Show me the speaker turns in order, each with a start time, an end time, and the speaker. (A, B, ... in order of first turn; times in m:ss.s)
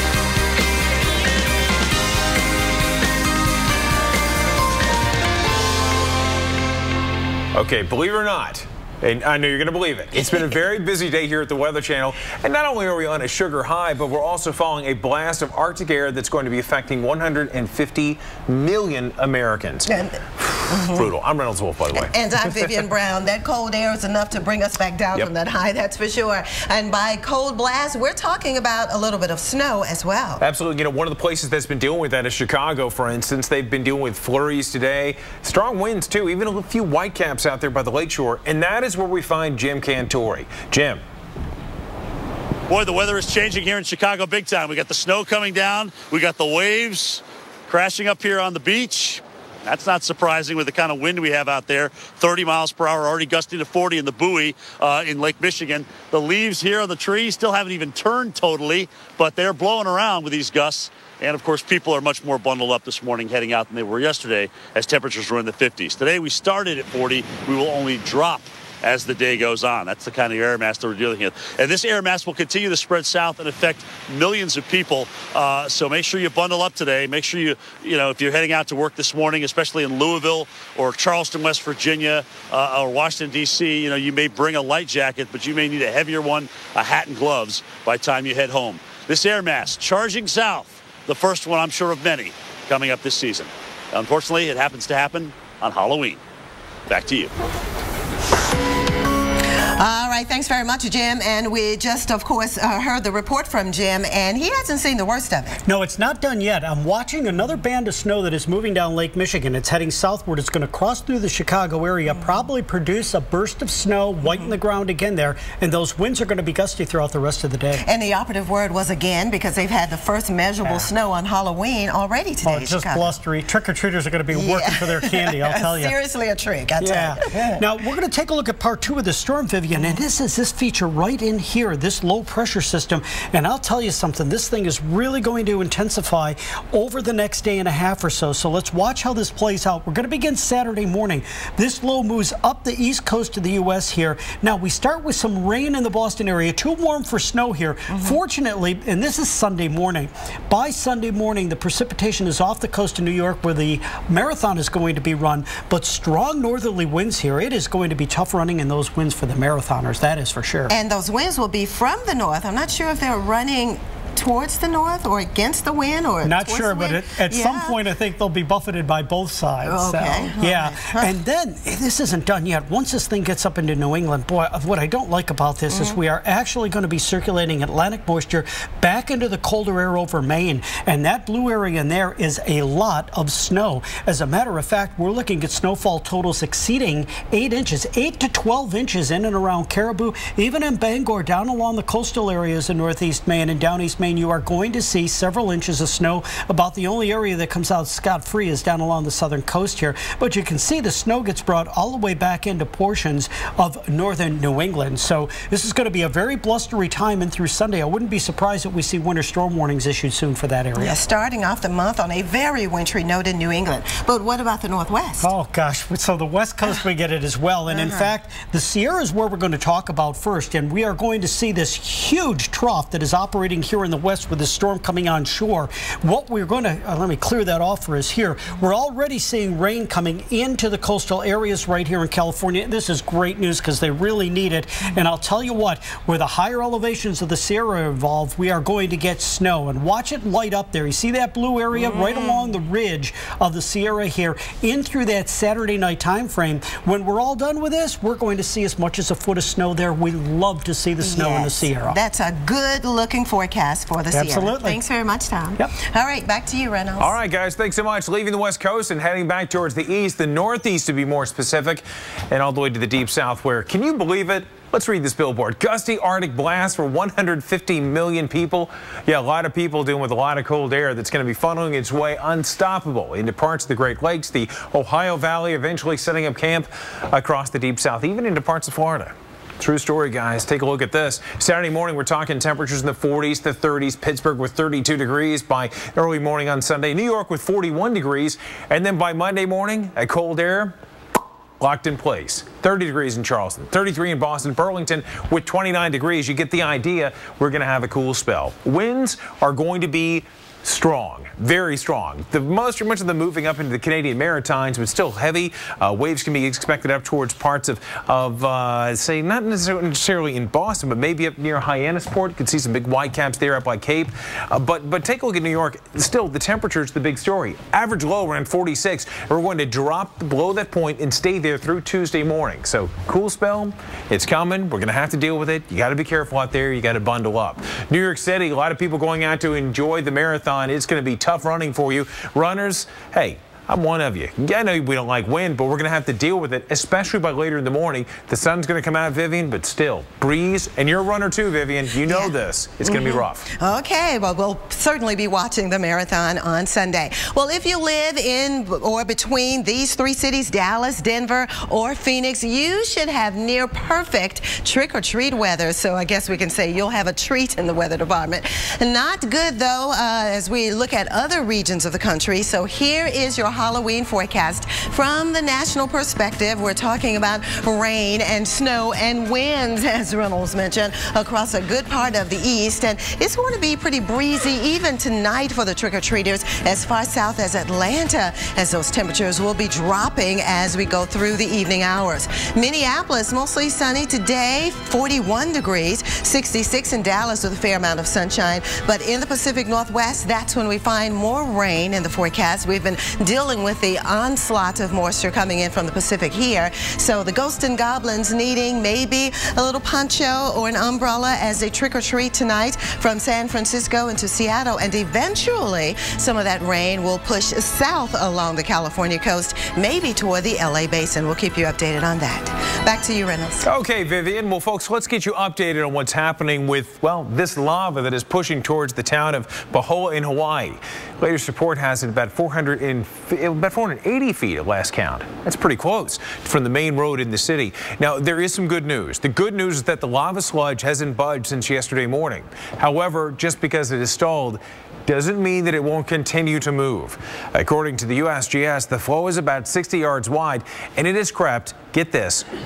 0:07.5-0:22.8 A
0:19.9-0:21.1 B
0:21.9-0:30.4 B
0:30.4-0:41.0 A
0:42.7-1:36.2 C
1:36.9-1:37.3 C
1:39.8-1:45.6 B
1:45.6-1:57.8 D
1:52.1-1:52.4 B
1:54.2-1:54.5 B
1:57.8-2:03.2 B
2:02.4-2:05.9 D
2:04.3-2:07.6 B
2:06.8-2:40.7 D
2:09.7-2:10.0 B
2:27.9-2:28.2 B
2:40.7-2:47.8 B
2:46.2-3:31.0 D
2:49.6-2:51.2 B
2:55.7-2:56.0 B
3:30.8-3:35.3 B
3:35.2-4:12.0 D
3:37.7-3:38.1 B
4:01.7-4:02.6 B
4:11.0-4:17.1 B
4:14.1-4:14.8 D
4:17.0-4:50.7 A
4:51.6-5:43.5 A
5:42.1-5:42.3 B
5:42.8-6:53.6 B
6:53.6-7:22.4 A